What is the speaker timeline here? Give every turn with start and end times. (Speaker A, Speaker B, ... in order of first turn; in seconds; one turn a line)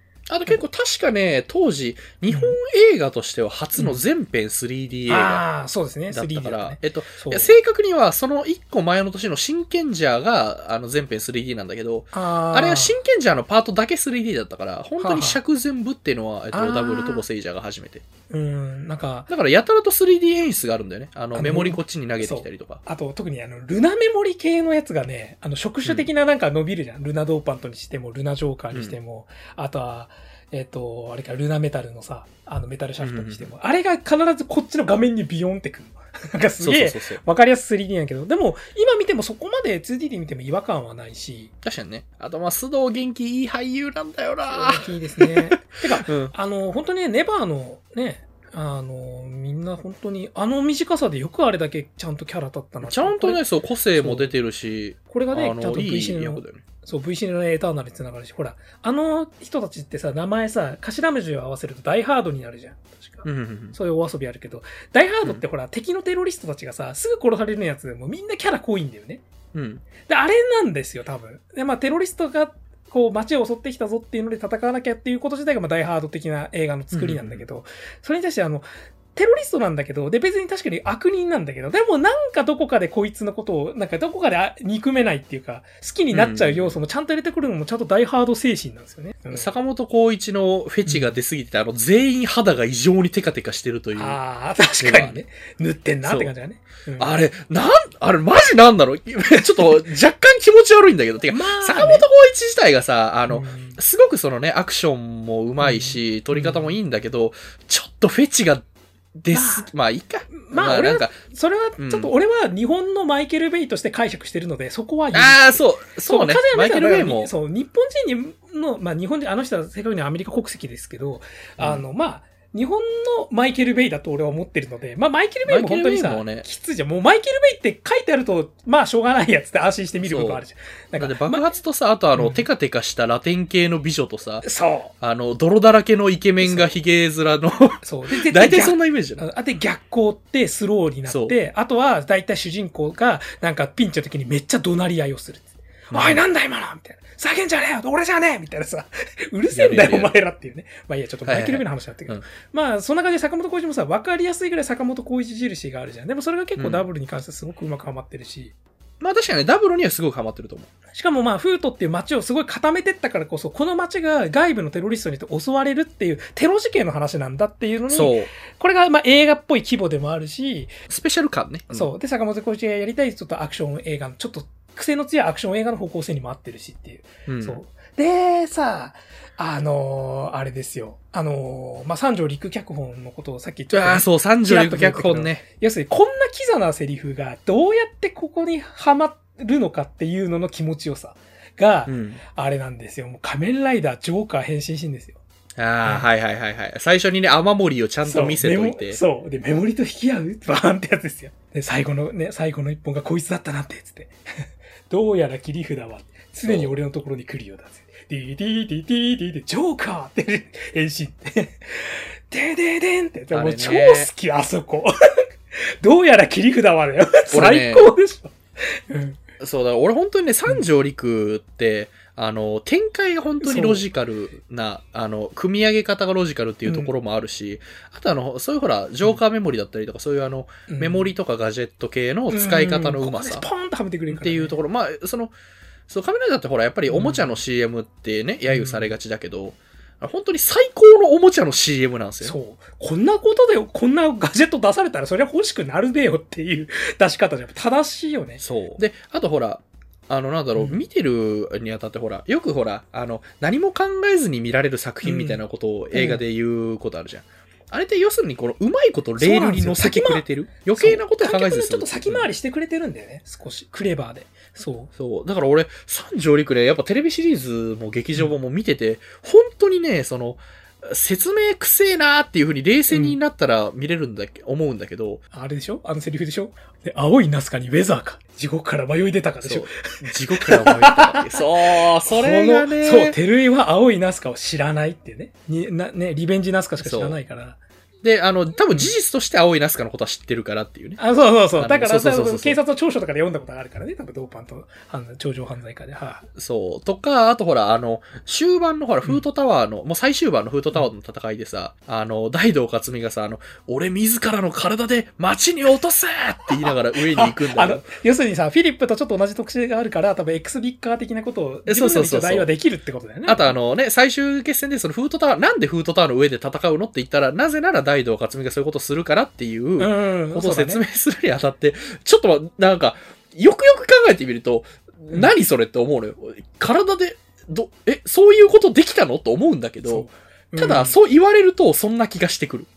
Speaker A: 0.3-5.4
Speaker B: 2.3-2.6
Speaker B: 3.8-4.0
Speaker B: 5.1-7.6
Speaker A: 6.1-18.0
Speaker B: 12.1-13.0
Speaker B: 15.0-15.4
Speaker B: 16.5-17.2
Speaker B: 18.3-19.3
Speaker A: 19.3-22.8
Speaker B: 21.3-41.5
Speaker A: 25.8-26.1
Speaker A: 28.7-29.0
Speaker A: 33.0-33.5
Speaker A: 36.6-37.2
Speaker A: 41.6-46.3
Speaker B: 44.5-53.4
Speaker A: 52.8-56.6
Speaker B: 54.0-54.3
Speaker B: 55.1-69.2
Speaker A: 63.2-63.8
Speaker A: 69.5-69.8
Speaker B: 70.0-89.5
Speaker A: 76.9-77.4
Speaker A: 86.1-86.8
Speaker A: 89.3-94.2
Speaker B: 90.8-91.2
Speaker B: 93.9-97.1
Speaker A: 94.8-95.2
Speaker A: 96.0-96.3
Speaker A: 97.0-108.6
Speaker B: 101.3-102.0
Speaker B: 103.3-103.8
Speaker B: 105.6-106.8
Speaker A: 109.2-111.2
Speaker B: 109.3-109.7
Speaker B: 110.4-131.5
Speaker A: 111.8-112.1
Speaker A: 115.1-117.3
Speaker A: 125.5-126.5
Speaker A: 130.0-130.4
Speaker A: 130.9-134.5
Speaker B: 132.1-132.4
Speaker B: 134.4-134.9
Speaker A: 135.0-139.3
Speaker B: 136.4-136.7
Speaker B: 137.8-158.5
Speaker A: 141.1-141.3
Speaker A: 145.9-146.2
Speaker A: 149.5-150.1
Speaker A: 151.2-152.2
Speaker A: 156.6-156.8
Speaker A: 159.0-160.7
Speaker B: 160.9-170.7
Speaker A: 167.9-168.3
Speaker A: 170.9-171.9
Speaker B: 171.7-195.2
Speaker A: 177.3-177.6
Speaker A: 183.7-185.4
Speaker A: 191.9-192.2
Speaker A: 195.6-199.0
Speaker B: 198.0-219.2
Speaker A: 206.4-206.7
Speaker A: 213.3-214.1
Speaker A: 217.3-217.9
Speaker A: 219.4-233.4
Speaker B: 223.4-223.8
Speaker B: 226.7-226.9
Speaker B: 230.7-231.1
Speaker B: 232.3-234.6
Speaker A: 234.1-235.3
Speaker A: 235.9-242.3
Speaker B: 236.9-237.4
Speaker B: 238.5-238.9
Speaker B: 242.2-248.4
Speaker A: 248.4-262.3
Speaker B: 250.6-250.8
Speaker B: 255.0-255.4
Speaker B: 255.9-256.2
Speaker B: 259.2-264.9
Speaker A: 264.9-275.2
Speaker B: 272.9-273.2
Speaker B: 275.3-279.7
Speaker A: 279.4-283.2
Speaker B: 280.4-287.6
Speaker A: 286.8-287.2
Speaker A: 288.0-291.0
Speaker B: 288.7-288.9
Speaker B: 291.0-296.2
Speaker A: 291.6-292.6
Speaker A: 296.4-307.9
Speaker B: 306.6-313.5
Speaker A: 311.6-312.5
Speaker A: 313.2-332.7
Speaker B: 319.8-320.8
Speaker B: 329.8-331.0